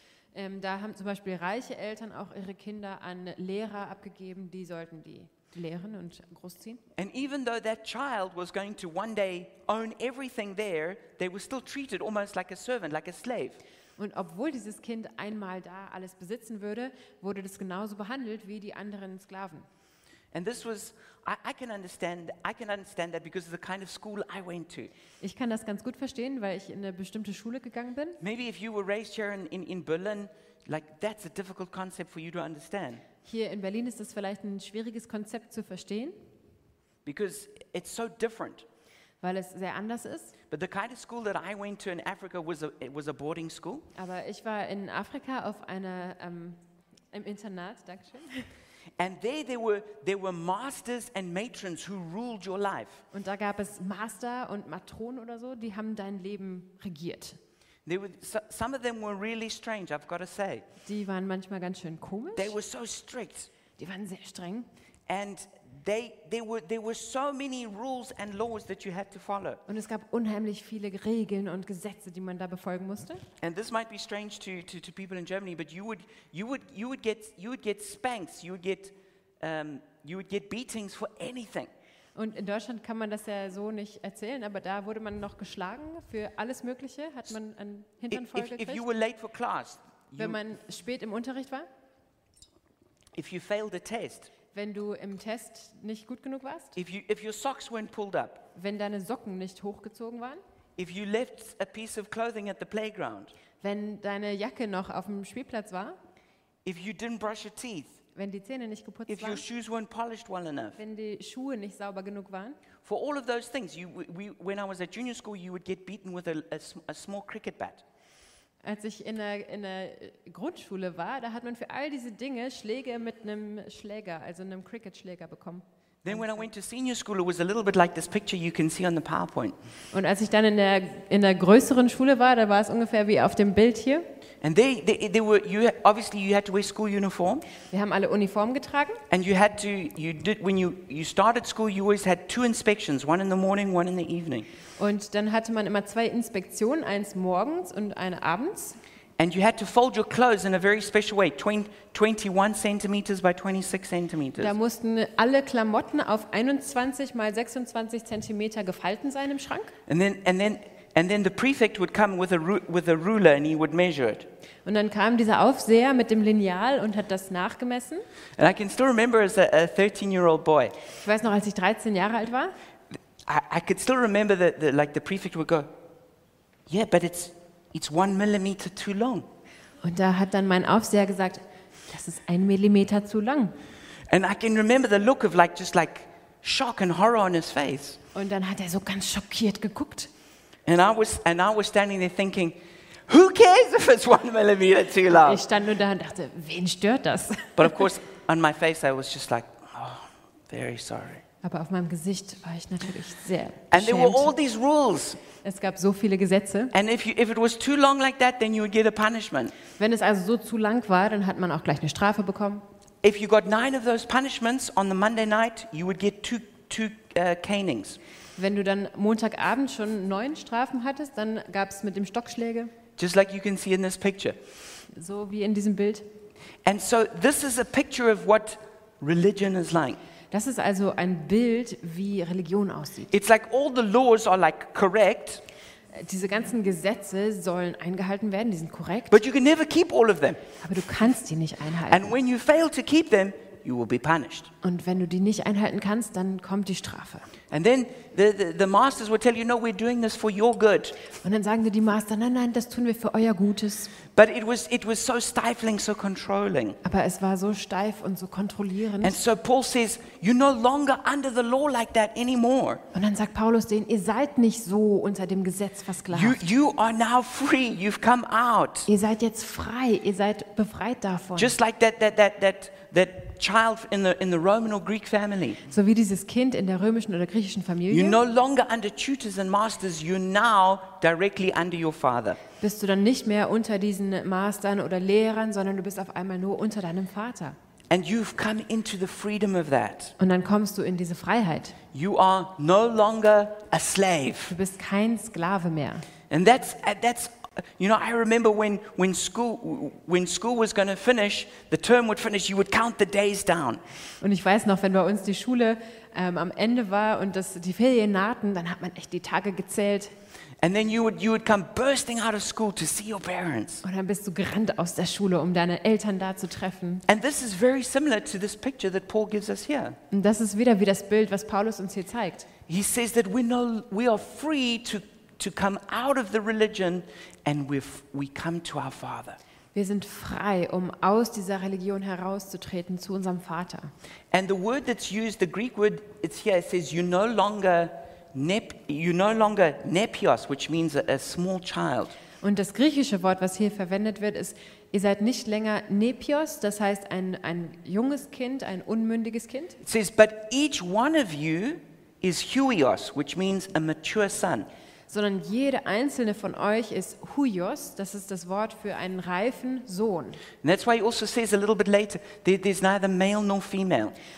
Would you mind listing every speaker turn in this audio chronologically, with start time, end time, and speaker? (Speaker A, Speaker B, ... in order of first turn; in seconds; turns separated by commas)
Speaker A: 0.3-6.8, Speaker B: 7.0-13.6, Speaker A: 14.0-19.7, Speaker B: 20.3-24.9, Speaker A: 25.2-28.2, Speaker B: 28.2-33.0, Speaker A: 33.2-36.1, Speaker B: 37.0-38.6, Speaker A: 39.2-40.4, Speaker B: 40.5-43.9, Speaker A: 43.9-46.6, Speaker A: 47.1-48.5, Speaker B: 49.0-53.0, Speaker A: 53.1-57.4, Speaker B: 57.9-60.6, Speaker A: 60.8-62.5, Speaker B: 62.3-63.5, Speaker A: 63.8-64.7, Speaker B: 65.1-69.6, Speaker A: 69.7-73.2, Speaker B: 73.4-81.7, Speaker A: 82.1-88.8, Speaker B: 88.1-90.4, Speaker A: 90.2-91.7, Speaker B: 93.1-94.3, Speaker A: 94.5-96.8, Speaker B: 96.7-98.4, Speaker A: 98.5-100.4, Speaker B: 100.8-103.3, Speaker A: 103.6-106.0, Speaker B: 106.6-108.0, Speaker A: 108.1-109.4, Speaker B: 109.1-110.8, Speaker A: 110.8-112.6, Speaker B: 112.8-117.8, Speaker A: 118.6-126.4, Speaker B: 126.0-129.6, Speaker A: 129.9-134.1, Speaker B: 134.4-137.4, Speaker A: 137.7-139.0, Speaker B: 139.1-144.5, Speaker A: 144.8-148.8, Speaker B: 149.2-154.5, Speaker A: 154.4-159.7, Speaker B: 159.9-164.3, Speaker A: 164.6-168.0, Speaker B: 168.4-170.8, Speaker A: 171.0-172.5, Speaker B: 173.2-175.7, Speaker B: 176.7-179.3, Speaker A: 179.8-183.6, Speaker B: 184.1-188.0, Speaker A: 188.1-190.1, Speaker B: 190.7-192.6, Speaker B: 193.1-195.4, Speaker A: 195.1-197.9, Speaker B: 197.6-201.2, Speaker A: 201.4-204.3, Speaker B: 203.7-205.2, Speaker A: 205.4-206.7, Speaker B: 206.7-209.5, Speaker A: 209.8-212.6, Speaker B: 213.0-218.0, Speaker A: 218.4-222.7, Speaker B: 223.0-224.4, Speaker A: 224.9-226.1, Speaker B: 226.7-230.0, Speaker A: 230.3-233.1, Speaker B: 233.1-235.4, Speaker A: 235.9-239.2, Speaker B: 239.1-240.4, Speaker A: 240.6-242.1, Speaker B: 241.9-244.5, Speaker A: 244.6-247.3, Speaker B: 247.5-251.0, Speaker A: 251.1-253.9, Speaker B: 254.1-256.8, Speaker A: 256.8-259.2, Speaker B: 259.0-262.8, Speaker A: 262.9-266.4, Speaker B: 266.1-268.9, Speaker A: 268.9-271.5, Speaker B: 271.4-275.6, Speaker A: 275.7-278.2, Speaker B: 277.9-282.4, Speaker A: 282.6-287.6, Speaker B: 287.9-290.1, Speaker A: 290.2-291.8, Speaker B: 291.9-294.5, Speaker A: 294.5-296.1, Speaker B: 296.3-303.8, Speaker A: 304.2-310.1, Speaker B: 310.6-313.8, Speaker A: 313.8-317.0, Speaker B: 317.1-320.0, Speaker A: 320.1-322.5, Speaker B: 322.7-329.4, Speaker A: 329.7-333.9, Speaker B: 334.3-342.1, Speaker A: 342.4-349.8, Speaker B: 349.8-354.7, Speaker A: 355.1-360.4, Speaker B: 360.6-364.1